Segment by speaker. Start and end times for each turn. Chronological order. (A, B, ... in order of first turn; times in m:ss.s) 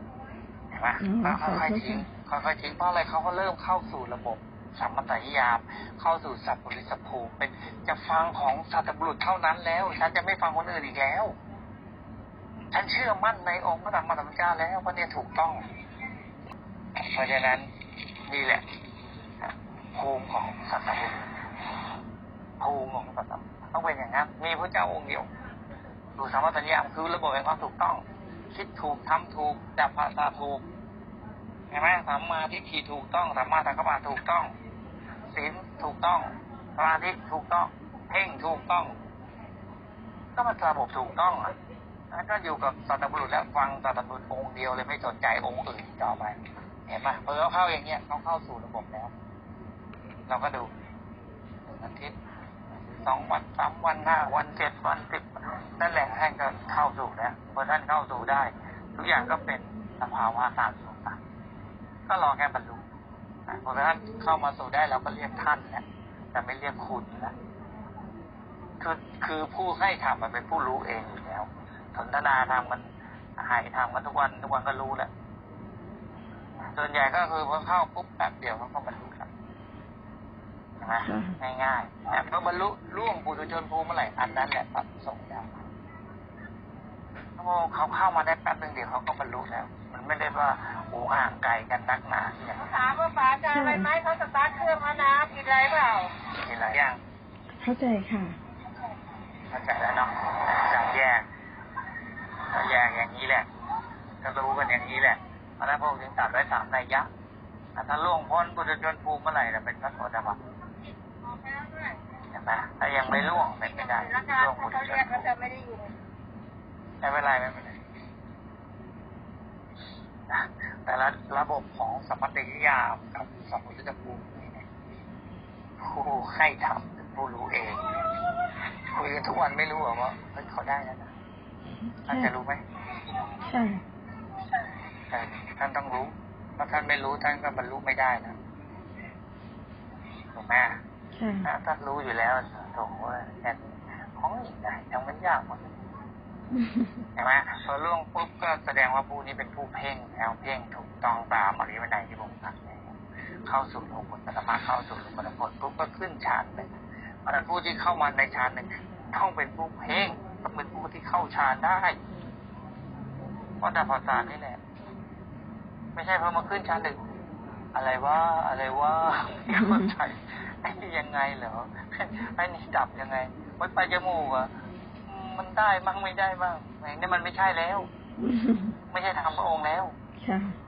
0:00.7-0:11.3 A
0:01.0-0:02.0 B
0:12.7-0:15.6 A
0:17.0-0:17.7 A
0:18.3-0:18.6 A
0:19.4-0:21.4 A
0:22.6-0:25.3 A
0:26.2-0:30.6 A
0:31.7-0:34.5 A
0:35.3-0:38.9 A
0:40.4-0:41.5 A
0:42.1-0:49.1 A
0:50.3-0:50.7 A
0:51.7-0:52.1 A
0:52.8-1:01.2 A
1:02.1-1:02.8 A
1:03.5-1:07.3 A
1:08.8-1:15.1 A
1:16.7-1:19.3 A
1:20.8-1:25.6 A
1:21.0-1:21.4 B
1:27.4-1:32.7 A
1:32.7-1:36.1 C
1:33.4-1:33.9 B
1:36.3-1:37.0 A
1:37.5-1:38.4 B
1:39.5-1:41.2 A
1:42.5-1:43.5 A
1:44.2-1:47.1 A
1:47.7-1:50.4 A
1:51.3-1:52.0 C
1:52.3-1:55.3 A
1:53.0-1:53.3 B
1:54.9-1:55.9 C
1:57.0-1:57.8 A
2:00.3-2:04.6 A
2:05.8-2:07.8 A
2:08.9-2:11.1 A
2:11.8-2:12.3 B
2:12.0-2:12.6 A
2:13.4-2:13.8 B
2:15.1-2:18.4 A
2:20.3-2:20.8 A
2:21.1-2:21.5 B
2:21.4-2:25.7 A
2:26.5-2:27.0 B
2:27.2-2:32.9 A
2:33.5-2:36.7 A
2:37.2-2:42.0 A
2:43.6-2:44.6 A
2:46.0-2:47.0 A
2:47.7-2:54.5 A
2:49.5-2:49.9 B
2:55.1-2:57.9 A
2:58.2-2:58.7 B
2:58.9-2:59.9 A
3:00.2-3:00.6 B